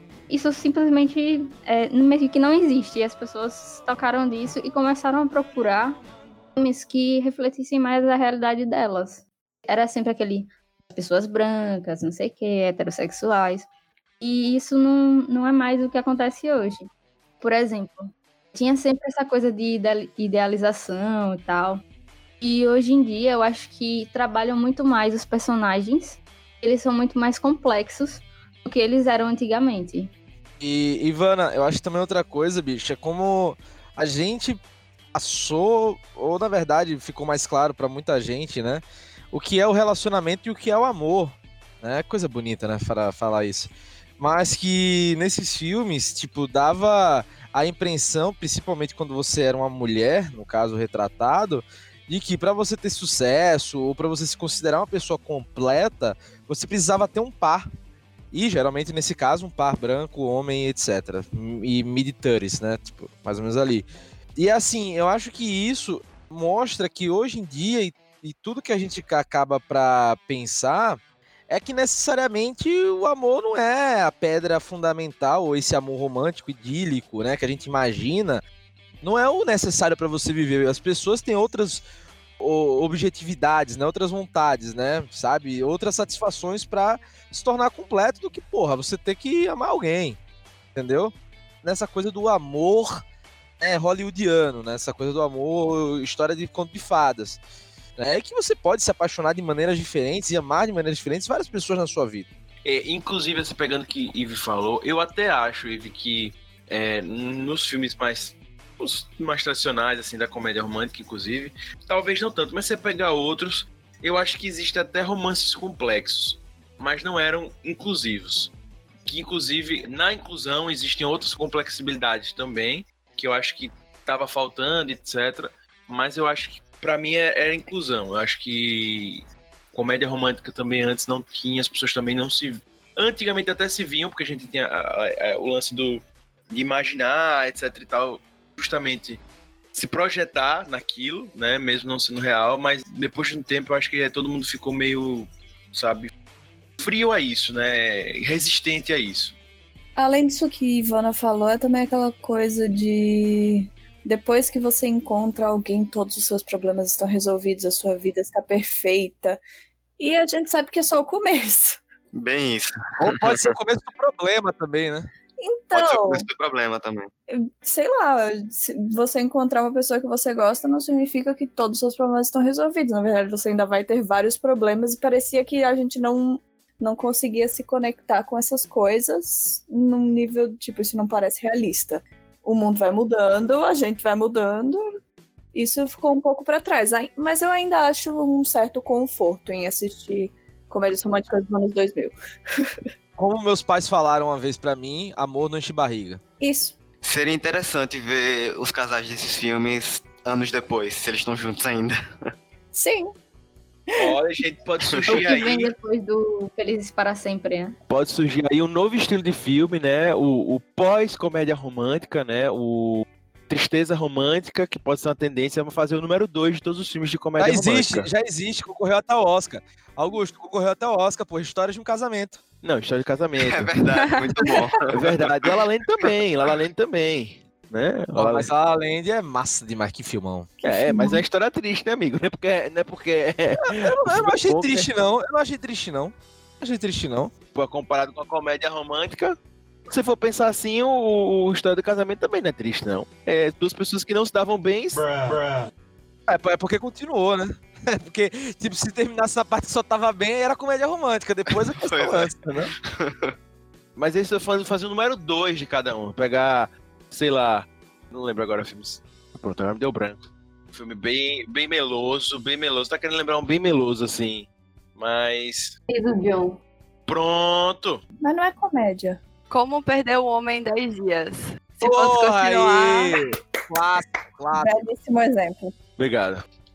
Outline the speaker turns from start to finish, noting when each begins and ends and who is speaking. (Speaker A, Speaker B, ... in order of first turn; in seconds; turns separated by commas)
Speaker A: 0.3-6.0, Speaker A: 6.5-13.7, Speaker A: 14.2-16.9, Speaker A: 17.4-21.8, Speaker A: 22.4-30.1, Speaker B: 30.6-34.6, Speaker B: 35.1-57.6, Speaker B: 58.3-78.4, Speaker B: 79.0-81.8, Speaker B: 82.4-90.2, Speaker B: 90.8-93.0, Speaker B: 93.6-97.4, Speaker B: 98.0-102.3, Speaker C: 102.6-118.5, Speaker C: 119.0-139.2, Speaker C: 139.7-146.1, Speaker C: 146.8-149.4, Speaker D: 149.9-159.4, Speaker D: 160.0-161.8, Speaker E: 162.1-163.5, Speaker B: 163.0-165.1, Speaker D: 165.4-166.3, Speaker E: 165.7-167.1, Speaker D: 167.3-184.9, Speaker D: 185.5-192.7, Speaker B: 193.2-196.2, Speaker D: 196.4-196.8, Speaker E: 197.0-201.9, Speaker D: 202.7-203.1, Speaker C: 204.0-205.7, Speaker E: 204.8-205.2, Speaker A: 205.1-207.8, Speaker C: 207.9-218.1, Speaker B: 217.4-222.4, Speaker C: 222.6-223.7, Speaker E: 223.4-226.5, Speaker F: 224.1-224.5, Speaker C: 224.9-228.5, Speaker B: 228.1-230.5, Speaker C: 230.6-234.9, Speaker D: 230.7-231.2, Speaker B: 233.7-237.3, Speaker C: 237.5-239.4, Speaker C: 239.9-245.4, Speaker B: 246.3-252.4, Speaker E: 251.8-252.3, Speaker E: 252.9-253.3, Speaker C: 253.9-265.8, Speaker A: 265.9-266.6, Speaker C: 267.1-268.0, Speaker D: 268.2-269.2, Speaker F: 269.5-273.1, Speaker B: 271.8-274.8, Speaker D: 274.5-275.7, Speaker C: 276.0-276.4